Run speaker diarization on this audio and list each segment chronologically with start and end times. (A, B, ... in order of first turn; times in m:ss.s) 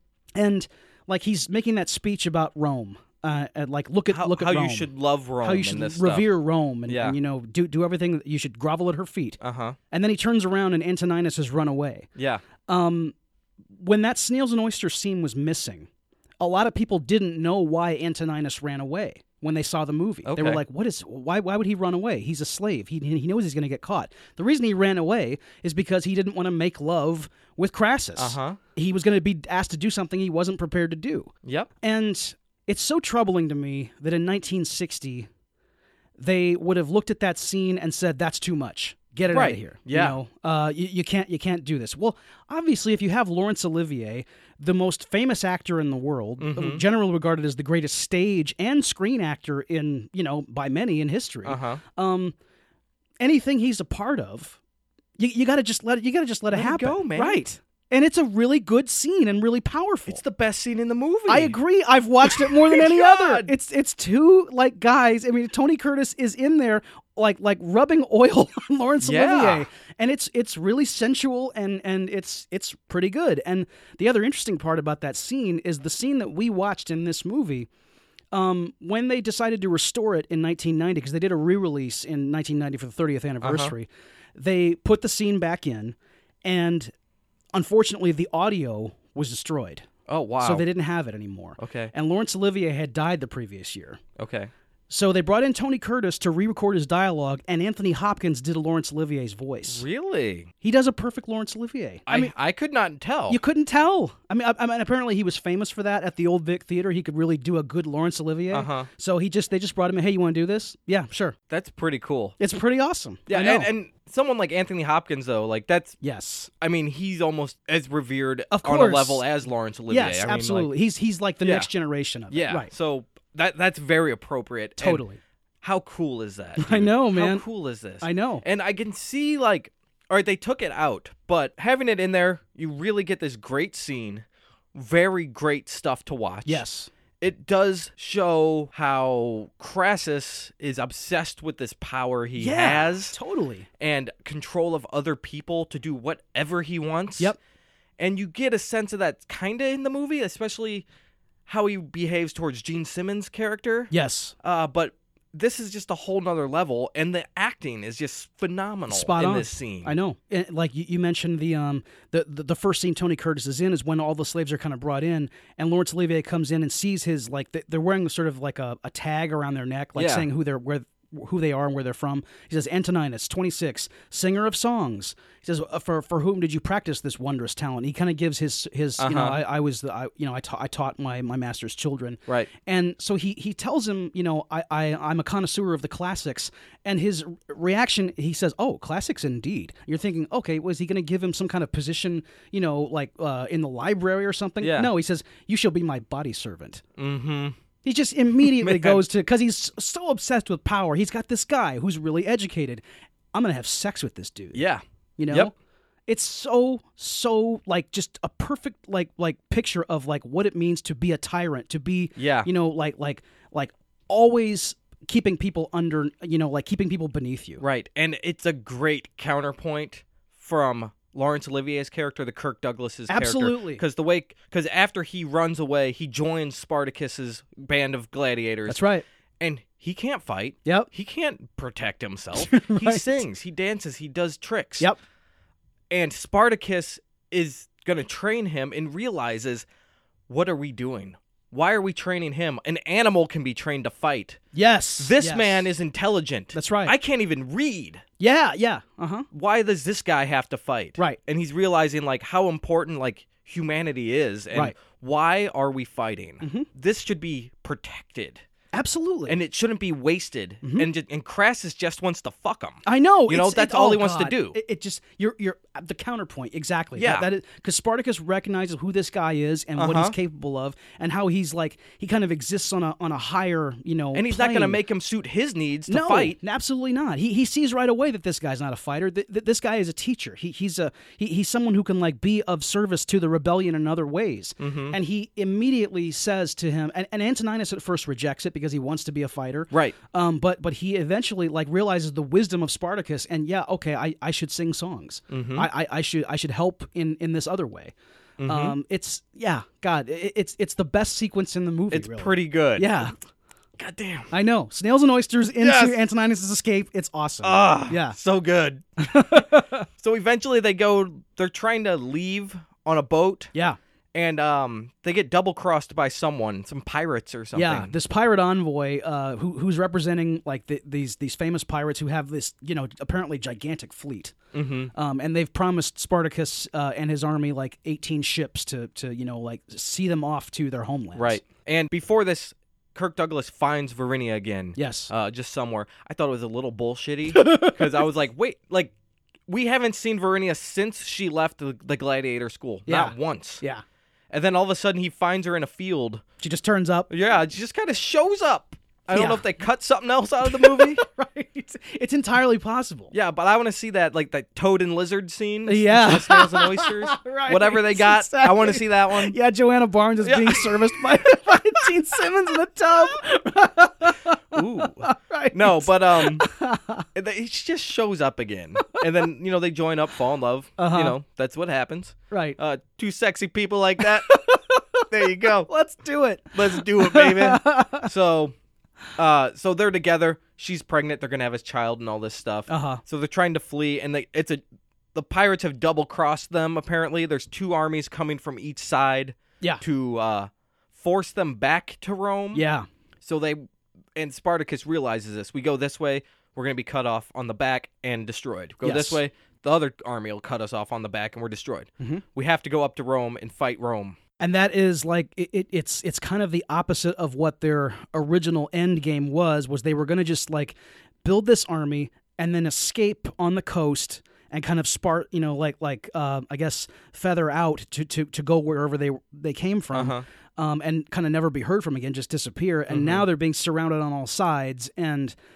0:00.4-0:04.9 A
0:04.1-0:06.3 B
0:05.4-0:09.4 A
0:06.9-0:07.2 B
0:09.4-0:09.8 B
0:09.9-0:12.1 A
0:12.2-0:12.4 B
0:12.7-0:13.2 A
0:13.8-0:15.9 A
0:16.4-0:35.3 A
0:20.3-0:20.6 B
0:28.2-0:28.6 B
0:31.4-0:31.7 B
0:36.2-0:52.4 A
0:39.3-0:40.2 B
0:46.4-0:46.8 B
0:51.4-0:51.8 B
0:53.2-0:54.6 A
0:55.2-1:00.2 A
0:56.5-0:57.4 B
1:00.1-1:01.6 B
1:01.3-1:17.7 A
1:02.2-1:03.5 B
1:09.0-1:09.7 B
1:18.3-1:26.9 A
1:23.4-1:23.7 B
1:27.5-1:29.9 A
1:30.1-1:30.6 B
1:30.4-1:34.0 A
1:31.6-1:31.9 B
1:34.2-1:34.5 B
1:34.9-1:39.8 A
1:39.7-1:40.5 B
1:40.6-1:42.3 A
1:42.1-1:43.4 B
1:43.3-1:51.4 A
1:48.5-1:48.9 B
1:51.5-1:52.4 B
1:52.4-1:53.7 A
1:53.3-1:56.0 B
1:56.0-1:56.5 A
1:56.6-2:00.7 B
1:58.5-1:59.2 A
1:59.9-2:02.7 A
2:01.4-2:01.7 B
2:02.3-2:05.0 B
2:04.8-2:05.2 A
2:05.6-2:16.6 B
2:06.6-2:07.4 A
2:08.0-2:08.4 A
2:16.5-2:16.9 A
2:17.2-2:23.2 B
2:22.4-2:23.7 A
2:23.8-2:27.4 B
2:28.0-2:30.9 B
2:31.5-2:39.9 B
2:33.9-2:34.4 A
2:38.9-3:16.8 A
2:50.0-2:50.3 B
2:59.0-2:59.4 B
3:14.6-3:14.9 B
3:17.0-3:17.6 B
3:17.8-3:24.6 A
3:18.4-3:19.0 B
3:24.5-3:25.5 B
3:25.2-3:25.5 A
3:26.1-3:37.6 A
3:32.2-3:32.5 B
3:37.6-3:48.8 B
3:43.1-3:43.8 A
3:48.7-3:49.0 A
3:49.4-3:54.9 B
3:52.4-3:53.2 A
3:55.9-3:59.7 B
4:00.3-4:04.4 B
4:04.5-4:05.7 A
4:05.0-4:08.0 B
4:06.5-4:06.9 A
4:08.2-4:09.3 A
4:09.3-4:18.4 B
4:16.4-4:16.7 A
4:18.7-4:19.4 A
4:19.3-4:24.6 B
4:20.6-4:20.9 A
4:22.9-4:34.8 A
4:27.0-4:27.3 B
4:29.8-4:30.2 B
4:34.1-4:36.4 B
4:35.9-4:57.9 A
4:44.6-4:45.0 B
4:49.7-4:50.0 B
4:55.3-4:55.7 B
4:58.4-4:58.8 B
4:58.5-5:03.2 A
5:01.9-5:03.0 B
5:03.8-5:04.3 B
5:04.3-5:08.2 A
5:05.6-5:06.0 B
5:07.4-5:08.8 B
5:09.0-5:09.9 A
5:10.0-5:13.5 B
5:14.1-5:17.9 B
5:17.5-5:24.4 A
5:24.5-5:24.9 B
5:24.9-5:31.4 A
5:31.2-5:38.9 B
5:34.8-5:35.1 A
5:37.3-5:38.1 A
5:39.5-5:43.6 B
5:42.9-5:43.8 A
5:44.3-5:46.2 B
5:46.4-5:47.1 A
5:47.1-5:51.0 B
5:49.1-5:49.4 A
5:50.4-5:53.1 A
5:53.1-5:59.4 B
5:55.7-6:07.1 A
6:00.2-6:01.9 B
6:04.5-6:06.5 B
6:07.2-6:14.3 B
6:10.8-6:11.2 A
6:12.3-6:12.6 A
6:14.0-6:18.1 A
6:15.1-6:15.7 B
6:16.5-6:18.5 B
6:19.2-6:24.6 B
6:22.7-6:23.0 A
6:25.1-6:32.6 B
6:32.5-6:32.9 A
6:33.2-6:33.6 B
6:34.2-6:44.2 B
6:38.8-6:39.2 A
6:44.4-7:05.4 A
6:59.9-7:00.2 B
7:02.9-7:03.3 B